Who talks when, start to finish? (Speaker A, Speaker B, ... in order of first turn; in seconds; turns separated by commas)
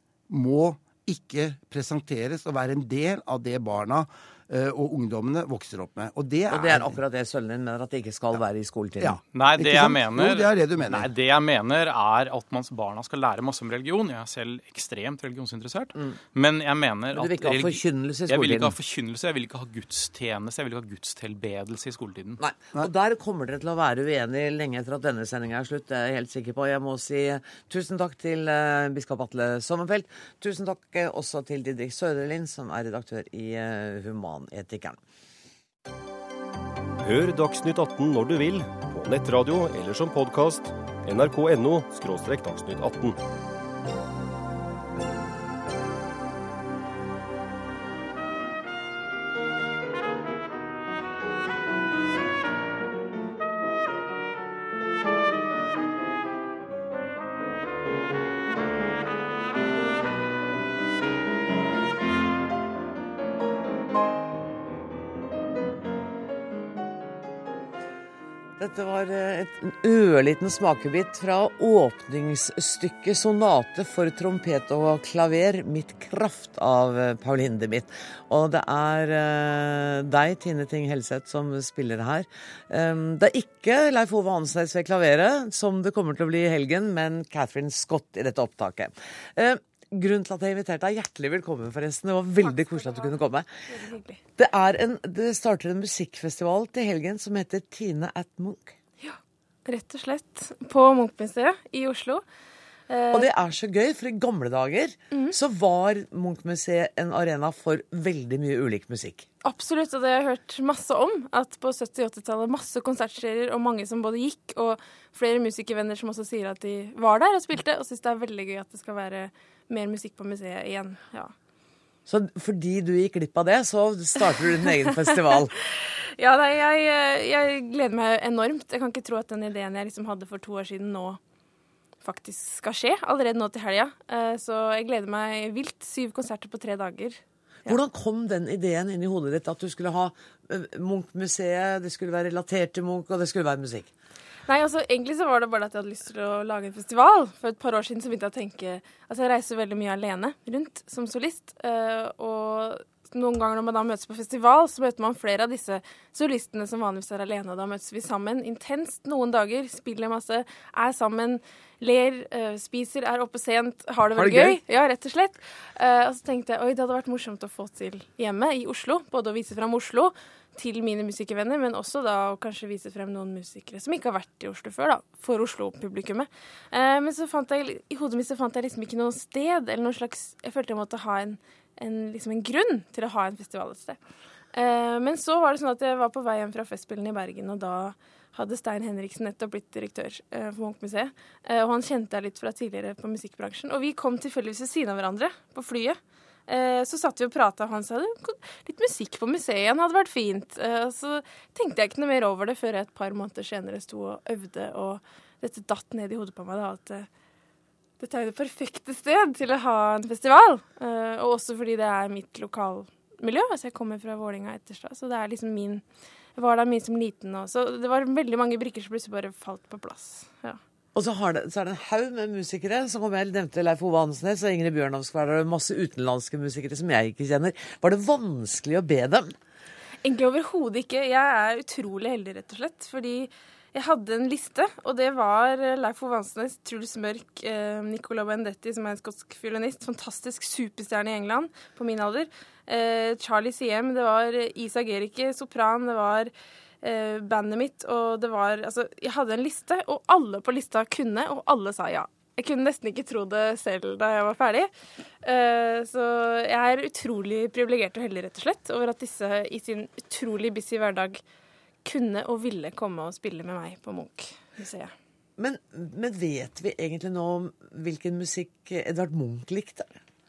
Speaker A: 0.3-7.0, Speaker B: 6.5-9.2, Speaker A: 9.0-11.1, Speaker C: 9.3-22.4, Speaker B: 17.1-18.8, Speaker B: 22.4-35.0, Speaker D: 37.0-43.2, Speaker B: 68.6-93.5, Speaker E: 92.4-93.1, Speaker E: 93.7-94.2, Speaker B: 94.4-98.7, Speaker E: 99.0-102.2, Speaker E: 102.9-103.3, Speaker B: 103.1-109.3, Speaker E: 109.4-121.3, Speaker B: 122.1-125.5, Speaker E: 125.1-131.2, Speaker E: 132.0-137.8, Speaker B: 137.7-143.9, Speaker E: 144.5-184.0, Speaker B: 164.2-164.6, Speaker E: 184.5-207.1, Speaker E: 208.0-215.8, Speaker E: 216.4-220.6, Speaker B: 220.9-229.3, Speaker E: 230.0-246.3, Speaker E: 246.8-254.7, Speaker E: 255.2-261.2, Speaker E: 261.8-264.9, Speaker B: 265.4-270.0